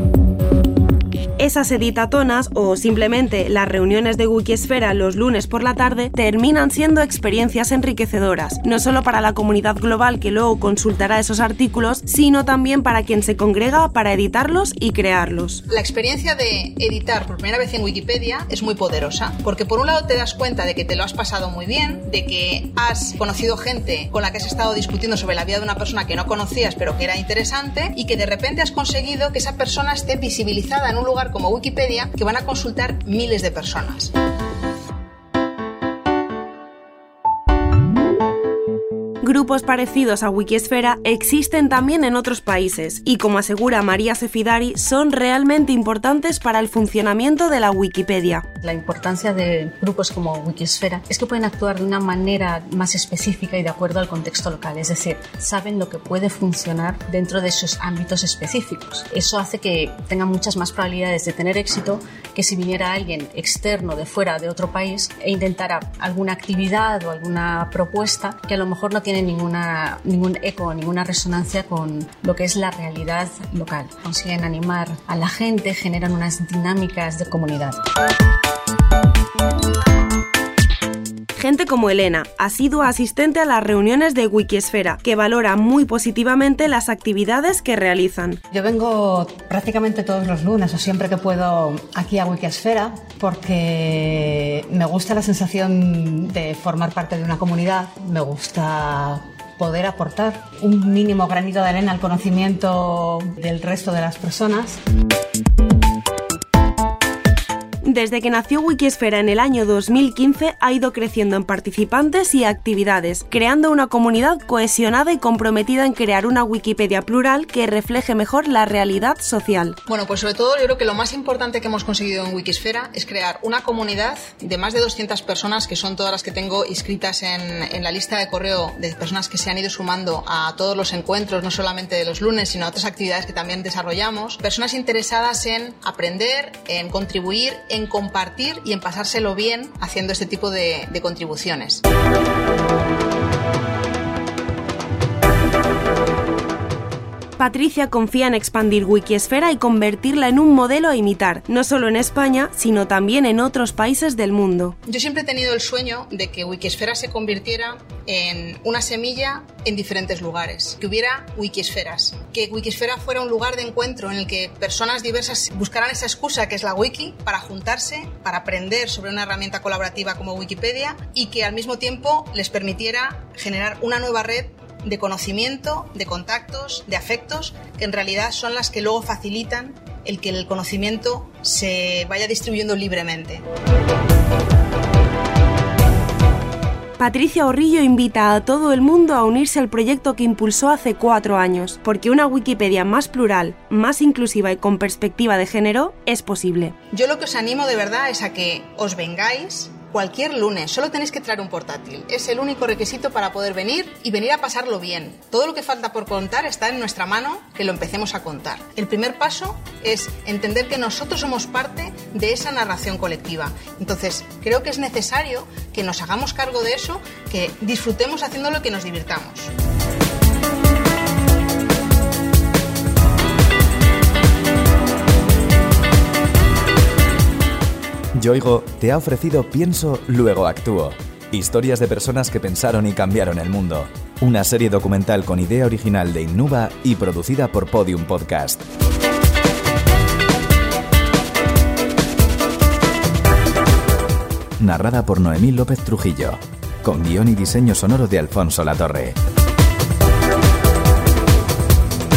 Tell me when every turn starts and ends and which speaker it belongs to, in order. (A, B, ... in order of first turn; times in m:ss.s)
0:01.4-0:15.6 A
0:15.7-0:34.1 B
0:39.2-0:48.4 A
0:48.6-1:17.8 C
1:21.4-1:28.4 A
1:28.5-1:44.8 D
1:47.8-1:59.8 A
1:59.8-2:21.8 B
2:27.4-2:34.8 A
2:34.8-3:03.4 B
3:07.0-3:16.7 A
3:16.9-3:39.5 B
3:48.2-3:58.6 E
4:04.6-4:09.2 E